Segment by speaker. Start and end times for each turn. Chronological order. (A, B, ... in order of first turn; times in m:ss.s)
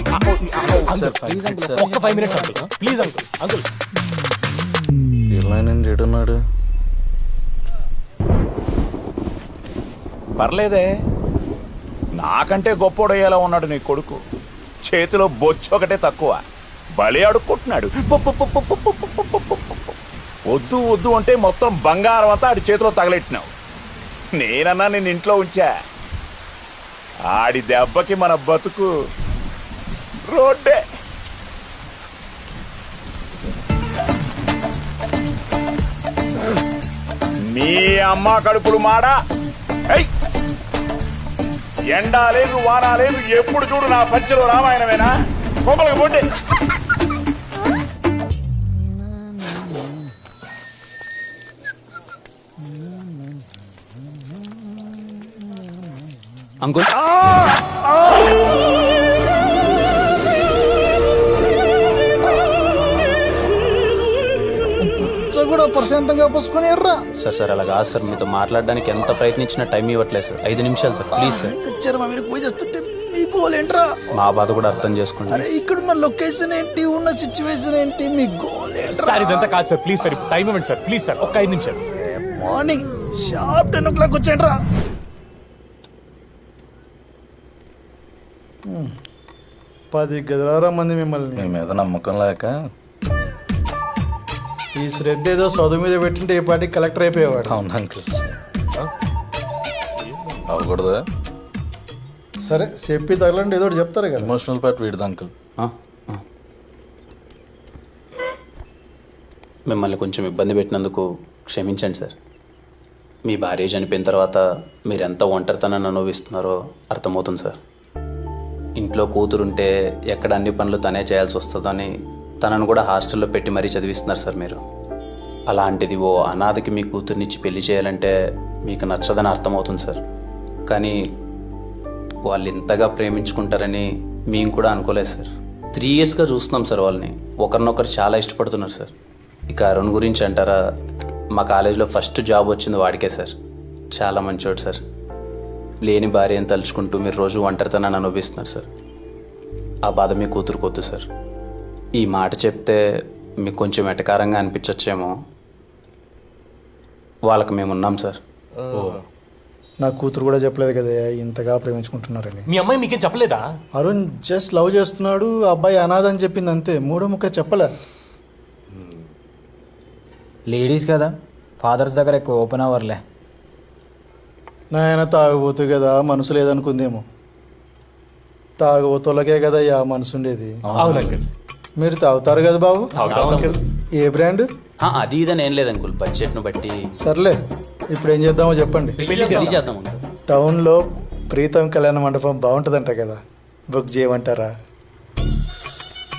0:00.4-0:01.9 A
0:00.9-0:03.7 B
0:01.8-0:02.7 C
0:05.3-0:06.4 A
0:10.4-0:10.9 D
0:12.2-0:14.2 D
0:14.8-0:16.4 D
0:17.0-0:20.0 D
0:20.5-0:23.5 D
0:24.3-0:25.8 D
0:27.3-0:28.9 D
0:30.3-0:30.8 D
0:37.5-0:39.2 D
0:41.9-0:45.1 D
0:45.6-0:46.3 D
0:56.6-0:56.9 E
0:57.3-0:57.7 F
1:04.8-1:07.0 F
1:07.2-1:11.6 E
1:11.1-1:14.0 F
1:14.1-1:15.5 E
1:15.3-1:20.4 F
1:18.9-1:21.8 B
1:22.4-1:24.6 F
1:28.7-1:28.9 F
1:29.9-1:31.6 F
1:31.4-1:32.6 A
1:34.8-1:37.6 F
1:37.5-1:38.1 A
1:40.5-1:41.0 A
1:42.4-1:44.3 F
1:44.2-1:45.3 A
1:45.6-1:46.2 E
1:49.7-1:52.2 E
1:53.3-1:57.6 E
1:58.8-2:04.6 E
2:05.5-2:08.2 E
2:08.7-2:10.0 E
2:10.7-2:11.0 E
2:12.3-2:18.9 E
2:19.5-2:20.6 E
2:21.4-2:23.3 E
2:24.0-2:24.8 E
2:25.8-2:28.7 E
2:29.9-2:31.1 E
2:32.0-2:32.8 E
2:33.4-2:35.1 E
2:37.3-2:38.2 E
2:38.7-2:39.0 A
2:39.8-2:42.5 F
2:42.5-2:43.4 B
2:43.8-2:47.7 F
2:50.5-2:53.0 C
2:54.7-2:57.0 F
2:58.6-3:00.6 F
3:00.7-3:01.2 A
3:00.8-3:01.2 B
3:01.8-3:02.9 F
3:03.0-3:03.6 B
3:03.1-3:03.6 E
3:04.0-3:04.5 F
3:04.8-3:06.8 E
3:07.0-3:07.4 F
3:07.9-3:09.0 F
3:09.0-3:10.0 E
3:09.0-3:09.5 B
3:10.3-3:10.8 F
3:11.3-3:13.2 F
3:13.7-3:14.5 F